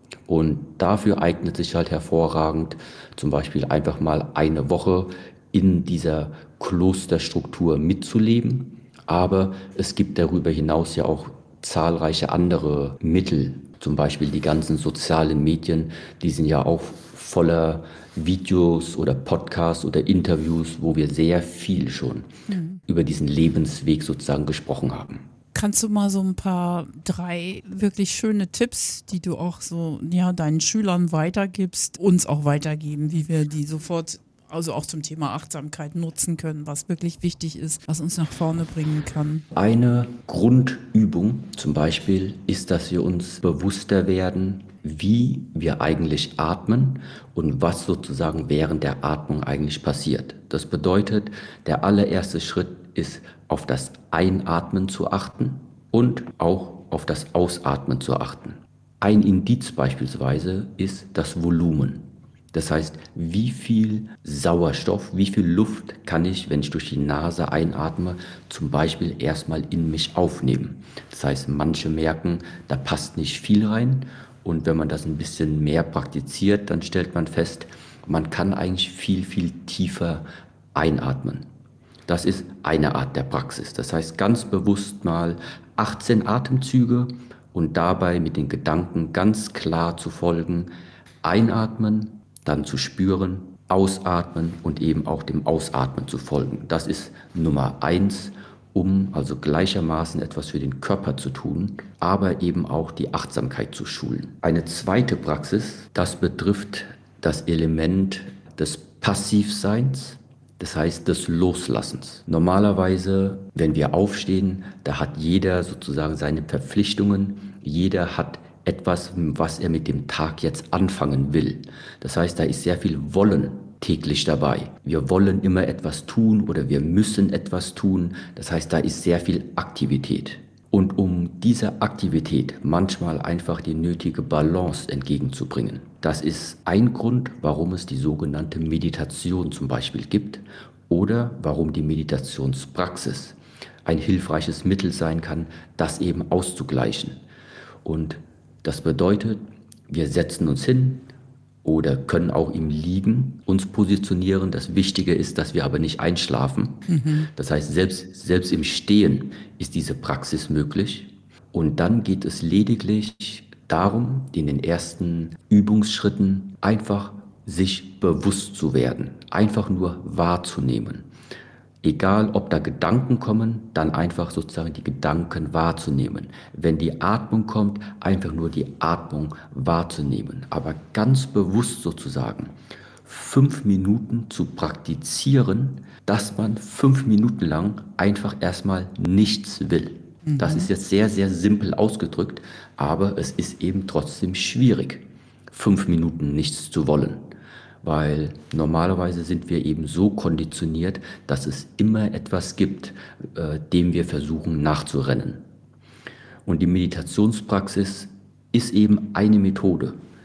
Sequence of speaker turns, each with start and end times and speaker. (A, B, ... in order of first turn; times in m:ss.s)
0:00.3-0:22.3 A
0:22.5-0:22.8 B
0:22.9-0:25.2 A
0:25.5-0:39.5 B
0:39.5-1:21.4 A
1:22.1-1:30.7 A
1:31.2-2:27.2 A
2:27.8-2:31.1 A
2:31.6-2:51.1 A
2:36.9-2:37.3 B
2:51.8-3:02.5 A
3:03.0-3:17.3 A
3:10.3-3:10.7 B
3:17.8-3:25.4 A
3:26.4-3:30.0 A